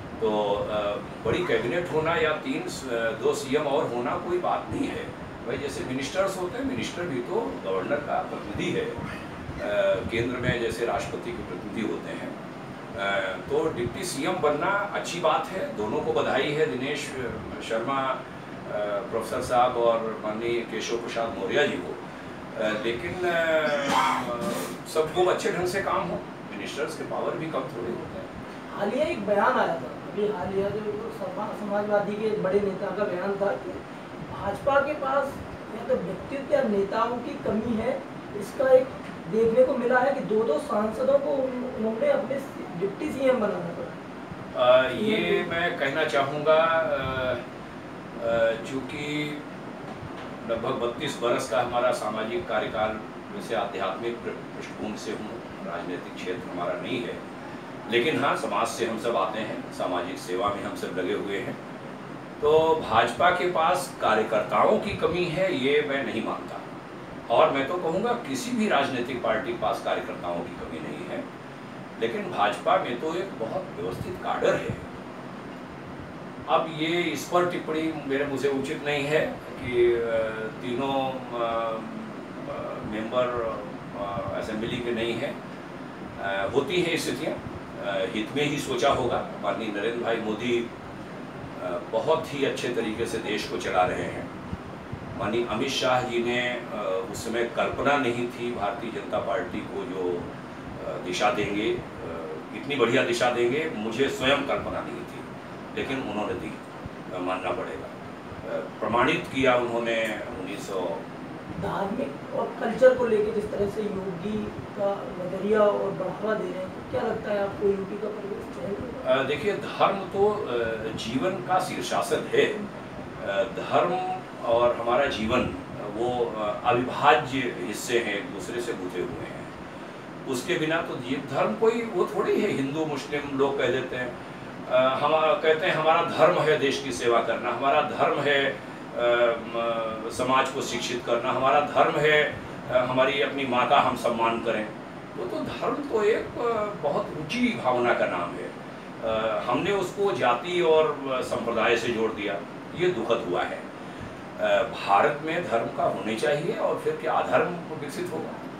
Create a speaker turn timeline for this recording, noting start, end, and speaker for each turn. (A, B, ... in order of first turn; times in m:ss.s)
0:00.2-0:09.0 A
0:09.6-0:12.3 A
0:12.9-0:22.0 A
0:22.5-0:28.3 A
0:28.7-0:44.0 B
0:44.5-0:47.4 A
0:44.9-0:45.5 B
0:48.2-0:49.4 A
0:50.4-0:57.2 A
0:57.8-1:01.6 A
1:02.4-1:06.6 A
1:07.3-1:11.2 A
1:12.0-1:14.8 A
1:16.5-1:25.4 A
1:26.2-1:30.7 A
1:31.6-1:34.3 A
1:35.1-1:51.0 A
1:51.6-1:59.1 B
1:59.0-2:02.6 A
2:03.2-2:09.5 A
2:10.2-2:14.1 A
2:14.6-2:33.6 A
2:34.4-2:38.4 A